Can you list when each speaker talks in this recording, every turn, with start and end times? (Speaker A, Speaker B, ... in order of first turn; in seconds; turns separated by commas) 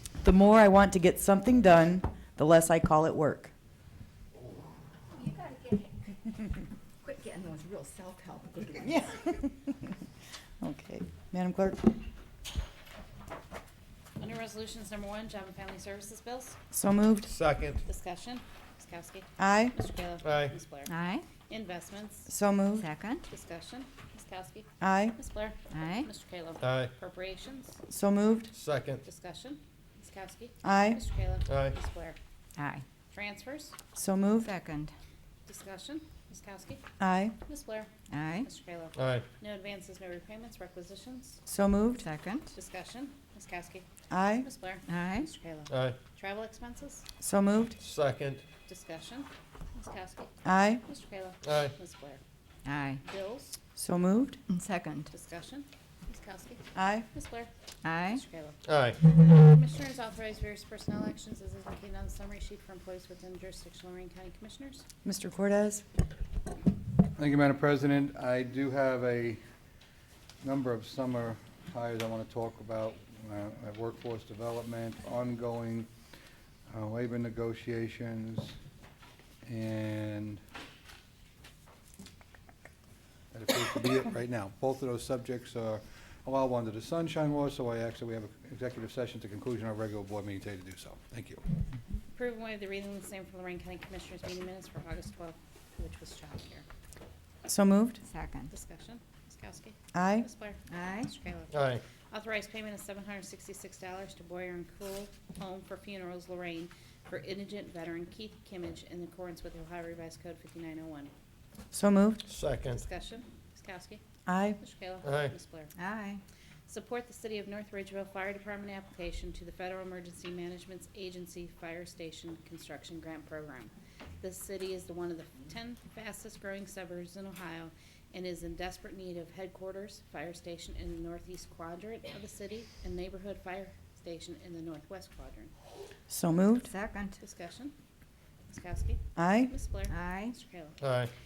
Speaker A: 0.2-3.5, Speaker B: 5.1-6.3, Speaker B: 7.0-9.0, Speaker A: 8.8-9.9, Speaker A: 10.6-11.9, Speaker C: 14.2-16.6, Speaker A: 16.7-17.3, Speaker D: 17.2-17.8, Speaker C: 17.8-20.9, Speaker A: 19.4-19.8, Speaker D: 20.2-20.5, Speaker B: 20.9-21.2, Speaker C: 21.5-22.3, Speaker A: 22.3-22.8, Speaker B: 22.8-23.2, Speaker C: 23.3-27.8, Speaker A: 24.8-25.2, Speaker B: 25.7-26.1, Speaker D: 26.6-26.9, Speaker A: 27.9-28.5, Speaker D: 28.5-29.0, Speaker C: 29.0-32.2, Speaker A: 30.6-31.0, Speaker D: 31.4-31.7, Speaker B: 32.5-32.9, Speaker C: 33.1-33.7, Speaker A: 33.9-34.5, Speaker B: 34.4-34.9, Speaker C: 35.5-36.8, Speaker A: 37.0-37.4, Speaker C: 37.4-37.9, Speaker B: 38.1-38.5, Speaker C: 38.4-41.4, Speaker D: 38.9-39.2, Speaker A: 41.5-42.0, Speaker B: 42.0-42.5, Speaker C: 42.5-43.9, Speaker A: 44.1-44.5, Speaker C: 44.4-47.0, Speaker B: 44.9-45.3, Speaker D: 45.7-46.0, Speaker A: 47.2-47.8, Speaker D: 47.8-48.4, Speaker C: 48.7-52.2, Speaker A: 50.4-50.8, Speaker D: 51.4-51.7, Speaker B: 52.6-53.0, Speaker C: 53.0-53.6, Speaker A: 53.8-54.4, Speaker B: 54.5-55.1, Speaker C: 55.1-57.5, Speaker A: 56.7-57.1, Speaker B: 57.8-58.2, Speaker C: 58.1-64.8, Speaker D: 58.6-59.0, Speaker A: 65.0-65.8, Speaker E: 67.2-69.4, Speaker E: 70.4-75.9, Speaker E: 76.7-78.6, Speaker E: 79.4-80.4, Speaker E: 83.3-91.4, Speaker C: 92.1-96.7, Speaker A: 97.5-98.0, Speaker B: 98.0-98.5, Speaker C: 98.5-111.1, Speaker A: 99.9-100.3, Speaker B: 100.7-101.1, Speaker D: 101.5-101.8, Speaker A: 111.7-112.2, Speaker D: 112.3-112.8, Speaker C: 112.6-114.0, Speaker A: 114.2-114.6, Speaker C: 114.6-115.7, Speaker D: 115.0-115.3, Speaker B: 115.8-116.2, Speaker C: 116.7-135.5, Speaker A: 136.1-136.7, Speaker B: 136.6-137.2, Speaker C: 137.2-137.7, Speaker C: 138.5-140.8, Speaker A: 139.2-139.5, Speaker B: 139.9-140.3, Speaker D: 140.8-141.1